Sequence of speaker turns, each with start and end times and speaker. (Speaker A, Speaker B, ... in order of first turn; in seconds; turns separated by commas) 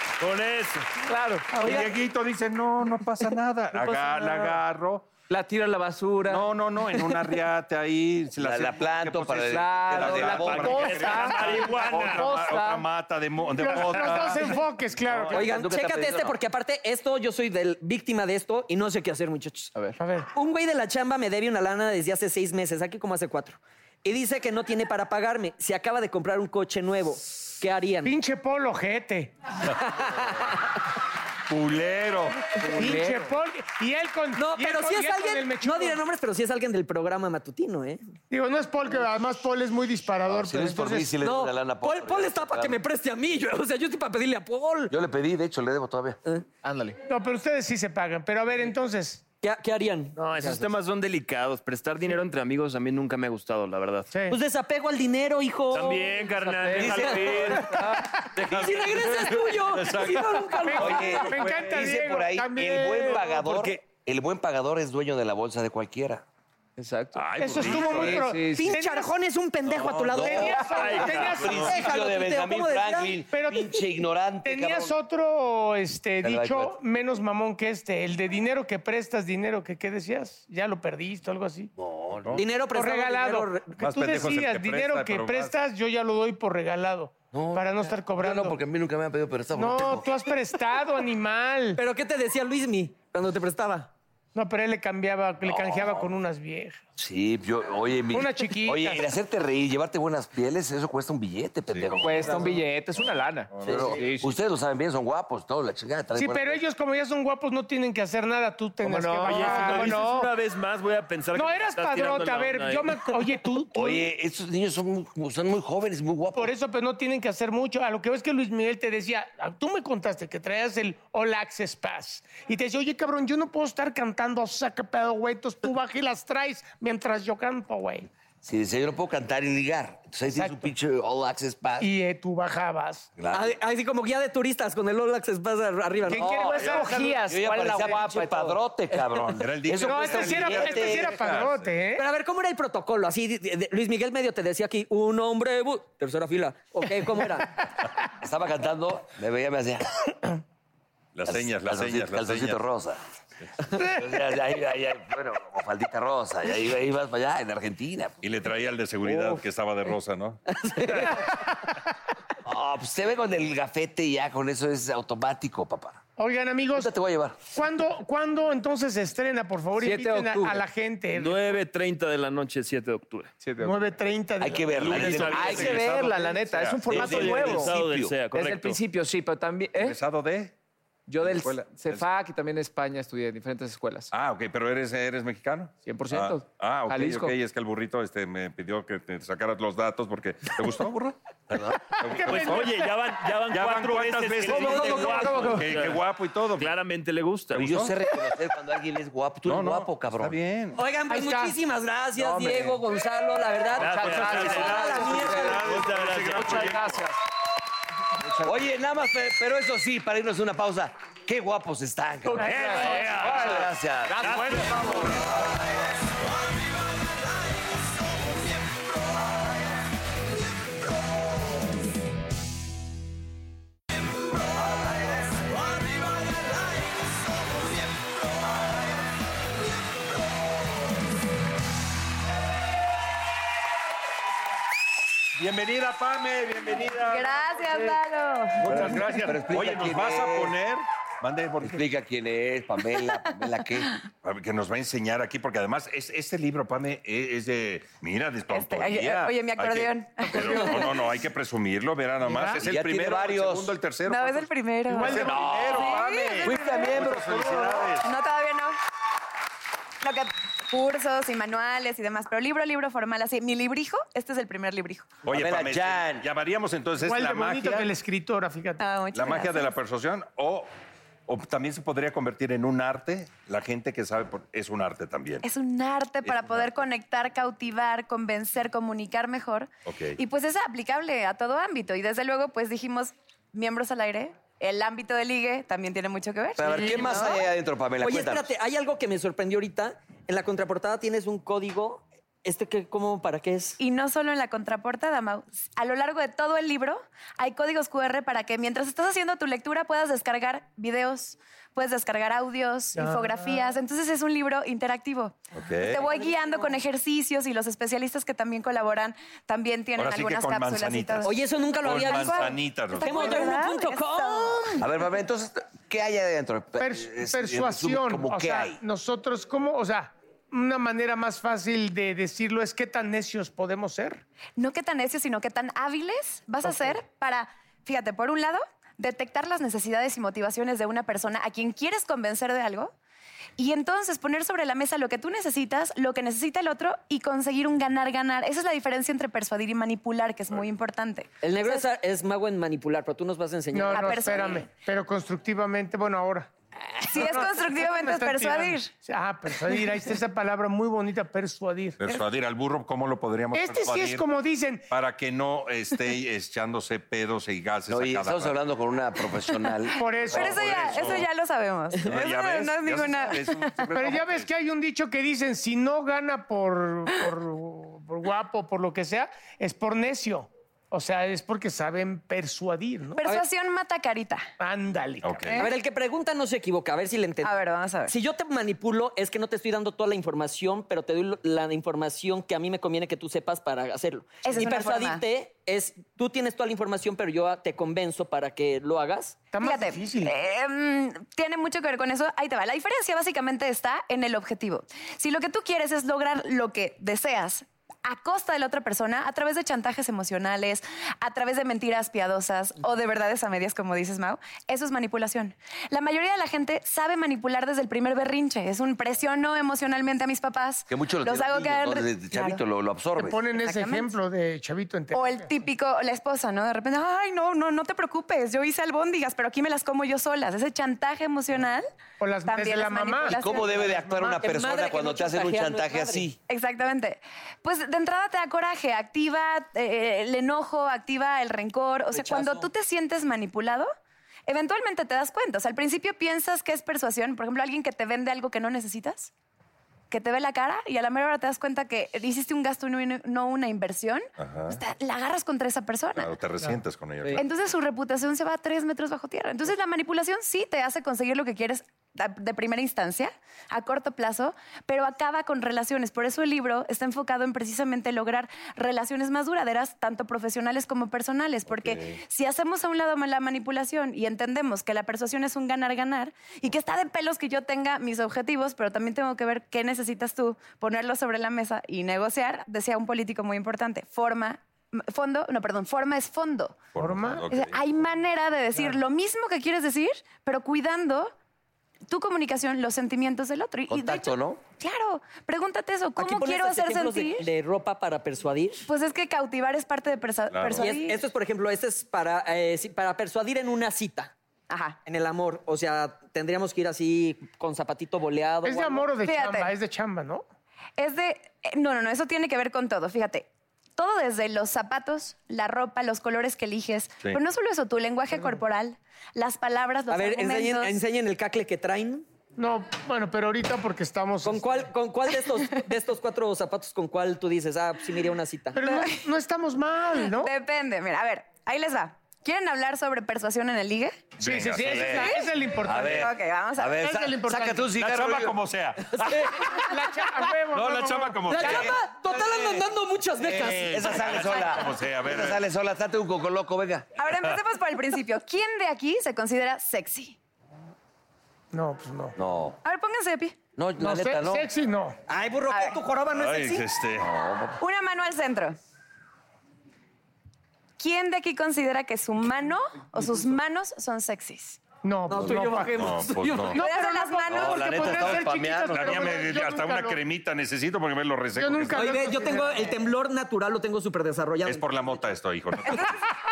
Speaker A: 0.2-0.9, Speaker B: 1.0-1.9, Speaker C: 1.6-5.1, Speaker B: 3.8-4.5, Speaker B: 5.3-6.5, Speaker C: 6.3-14.6, Speaker D: 8.4-11.1, Speaker B: 9.4-12.9, Speaker A: 10.7-12.3, Speaker E: 13.6-15.6, Speaker D: 15.0-16.4, Speaker F: 15.3-19.7, Speaker E: 20.0-20.3, Speaker F: 20.3-28.1, Speaker E: 28.0-29.3, Speaker F: 29.8-30.6, Speaker C: 31.5-32.5, Speaker B: 32.6-33.4, Speaker E: 32.8-36.0, Speaker F: 34.4-38.0, Speaker E: 38.3-41.1, Speaker D: 40.2-42.8, Speaker F: 41.2-44.9, Speaker D: 44.9-46.2, Speaker B: 46.6-47.0, Speaker E: 47.1-49.2, Speaker F: 49.4-50.2, Speaker A: 50.3-54.1, Speaker B: 50.4-50.7, Speaker E: 54.1-54.4, Speaker F: 54.3-56.2, Speaker A: 55.7-57.7, Speaker B: 56.3-58.1, Speaker D: 56.8-57.5, Speaker F: 58.4-61.5, Speaker C: 58.5-60.7, Speaker A: 58.5-59.3, Speaker E: 60.7-63.5, Speaker D: 60.8-66.2, Speaker C: 61.4-61.7, Speaker B: 66.8-68.8, Speaker C: 67.2-68.3, Speaker E: 67.4-69.1, Speaker F: 68.5-73.2, Speaker C: 69.7-70.3, Speaker D: 70.1-70.7, Speaker E: 70.4-71.7, Speaker B: 70.6-71.2, Speaker A: 70.7-71.7, Speaker D: 71.2-74.9, Speaker E: 73.3-81.7, Speaker D: 76.2-76.8, Speaker D: 81.8-82.4, Speaker F: 82.3-83.7, Speaker E: 82.7-88.6, Speaker C: 83.8-85.5, Speaker D: 87.3-90.1, Speaker E: 89.5-91.8, Speaker F: 91.8-93.9, Speaker E: 94.3-96.8, Speaker D: 95.4-96.1, Speaker D: 97.0-102.6, Speaker E: 98.1-99.1, Speaker C: 101.7-104.0, Speaker B: 102.0-104.4, Speaker D: 103.6-106.6, Speaker E: 106.2-110.3, Speaker B: 108.8-110.0, Speaker A: 109.2-113.0, Speaker E: 111.3-114.0, Speaker D: 113.7-116.5, Speaker E: 116.3-128.1, Speaker D: 128.4-131.9, Speaker E: 130.3-130.7, Speaker E: 131.8-133.1, Speaker D: 133.2-133.6, Speaker F: 133.3-136.4, Speaker E: 136.1-137.2, Speaker B: 136.2-138.6, Speaker D: 136.2-141.2, Speaker C: 139.4-141.7, Speaker E: 139.8-142.0, Speaker F: 142.0-147.5, Speaker D: 148.2-149.9, Speaker C: 151.2-152.6, Speaker D: 151.3-153.0, Speaker D: 153.7-158.3, Speaker C: 158.2-160.4, Speaker F: 160.5-161.2, Speaker D: 162.4-166.0, Speaker E: 166.2-166.9, Speaker D: 166.7-167.4, Speaker E: 167.5-171.6, Speaker B: 169.8-170.6, Speaker A: 171.2-173.3, Speaker B: 173.4-173.8, Speaker E: 173.6-174.8, Speaker D: 174.4-175.9, Speaker C: 174.8-177.5, Speaker A: 174.8-175.9, Speaker B: 174.9-180.0, Speaker D: 176.9-178.2, Speaker A: 176.9-178.8, Speaker C: 179.8-180.5, Speaker B: 181.1-184.1, Speaker C: 181.2-182.1, Speaker C: 184.1-192.9, Speaker B: 185.8-187.4, Speaker A: 192.2-196.0, Speaker C: 193.5-196.7, Speaker F: 194.6-195.5, Speaker A: 196.5-197.7, Speaker C: 197.5-197.9, Speaker D: 197.6-200.3, Speaker C: 199.4-200.8, Speaker F: 200.8-205.6, Speaker E: 201.1-201.6, Speaker B: 202.2-202.8, Speaker B: 203.8-207.2, Speaker A: 203.8-206.8, Speaker C: 204.3-207.0, Speaker B: 208.2-208.7, Speaker D: 208.4-214.6, Speaker B: 212.3-215.2, Speaker E: 212.3-212.7, Speaker A: 212.5-213.5, Speaker C: 212.9-213.4, Speaker C: 214.2-214.6, Speaker A: 214.3-214.8, Speaker C: 235.4-238.0, Speaker G: 237.0-238.8, Speaker C: 238.6-241.9, Speaker D: 238.6-240.6, Speaker D: 241.6-244.0, Speaker C: 244.2-258.1, Speaker G: 248.5-251.0, Speaker E: 250.3-250.8, Speaker E: 252.2-252.6, Speaker D: 252.6-253.8, Speaker G: 254.1-256.9, Speaker E: 254.9-257.0, Speaker D: 255.0-257.9, Speaker G: 258.0-258.8, Speaker G: 260.0-265.2, Speaker D: 265.2-266.3, Speaker C: 265.2-267.9, Speaker E: 267.0-268.8, Speaker G: 268.8-269.8, Speaker C: 269.1-270.7, Speaker C: 271.3-275.4, Speaker G: 275.4-287.5, Speaker C: 276.2-276.8, Speaker C: 279.9-280.2, Speaker D: 286.6-288.5, Speaker F: 286.7-287.4, Speaker F: 288.0-293.8, Speaker G: 293.8-314.9, Speaker E: 302.9-303.6, Speaker C: 305.5-306.0, Speaker F: 306.2-306.7, Speaker C: 310.0-313.5, Speaker F: 311.2-314.8, Speaker D: 314.8-318.8, Speaker E: 316.8-324.2, Speaker G: 324.6-332.9, Speaker G: 333.6-341.8, Speaker F: 341.4-344.4, Speaker E: 343.7-346.5, Speaker G: 343.9-344.7, Speaker G: 347.0-348.9, Speaker E: 347.1-352.0, Speaker C: 352.0-354.3, Speaker E: 353.5-354.9, Speaker C: 354.9-358.6, Speaker D: 357.9-360.6, Speaker E: 360.0-361.1, Speaker C: 360.3-361.3, Speaker G: 360.3-363.9, Speaker C: 361.9-364.5, Speaker E: 363.9-373.2, Speaker G: 373.2-374.5, Speaker E: 374.6-375.6, Speaker C: 375.2-375.6, Speaker G: 375.5-375.7, Speaker F: 375.6-377.5, Speaker G: 377.4-378.1, Speaker F: 378.1-389.4, Speaker G: 384.4-385.2, Speaker E: 389.5-390.3, Speaker G: 389.6-412.6, Speaker D: 410.9-413.4, Speaker E: 413.2-415.5, Speaker G: 413.5-414.1, Speaker G: 415.1-421.9, Speaker E: 422.2-424.4, Speaker G: 422.4-423.7, Speaker D: 423.3-426.4, Speaker F: 424.4-426.2, Speaker G: 426.5-433.9, Speaker F: 432.1-432.6, Speaker G: 434.5-439.3, Speaker G: 440.1-446.3, Speaker C: 444.4-444.8, Speaker C: 446.1-447.5, Speaker G: 447.4-476.9, Speaker C: 461.7-462.2, Speaker C: 476.9-477.8, Speaker E: 477.0-477.5, Speaker G: 477.5-481.3, Speaker G: 482.1-487.5, Speaker D: 483.9-484.6, Speaker F: 486.2-488.8, Speaker G: 488.9-491.2, Speaker C: 490.5-490.9, Speaker F: 490.8-494.3, Speaker G: 494.7-495.0, Speaker F: 495.0-499.1, Speaker E: 498.6-500.4, Speaker G: 499.2-499.7, Speaker G: 501.0-511.0, Speaker E: 508.3-508.6, Speaker F: 510.1-512.2, Speaker E: 512.6-514.9, Speaker F: 514.4-518.8, Speaker E: 518.8-520.5, Speaker G: 518.8-519.2, Speaker G: 520.2-524.3, Speaker C: 524.4-525.3, Speaker E: 524.4-526.3, Speaker D: 524.8-528.6, Speaker G: 526.1-527.0, Speaker E: 527.0-527.9, Speaker C: 528.0-529.8, Speaker F: 529.1-529.7, Speaker E: 529.7-531.9, Speaker C: 530.7-531.9, Speaker F: 531.5-534.6, Speaker C: 533.4-535.6, Speaker D: 533.6-537.1, Speaker G: 537.2-540.4, Speaker E: 541.7-542.4, Speaker D: 542.4-542.8, Speaker G: 542.8-543.6, Speaker D: 543.8-544.7, Speaker E: 544.0-545.2, Speaker F: 545.3-546.8, Speaker G: 545.7-546.0, Speaker C: 546.3-547.3, Speaker D: 547.2-547.8, Speaker G: 547.8-548.8, Speaker G: 551.0-554.8, Speaker E: 555.0-556.0, Speaker F: 555.3-556.8, Speaker C: 555.9-556.8, Speaker E: 556.7-560.2, Speaker G: 556.8-558.2, Speaker D: 557.5-559.4, Speaker C: 558.9-562.3, Speaker E: 561.6-563.0, Speaker F: 561.9-565.3, Speaker C: 564.7-566.2, Speaker G: 565.9-566.2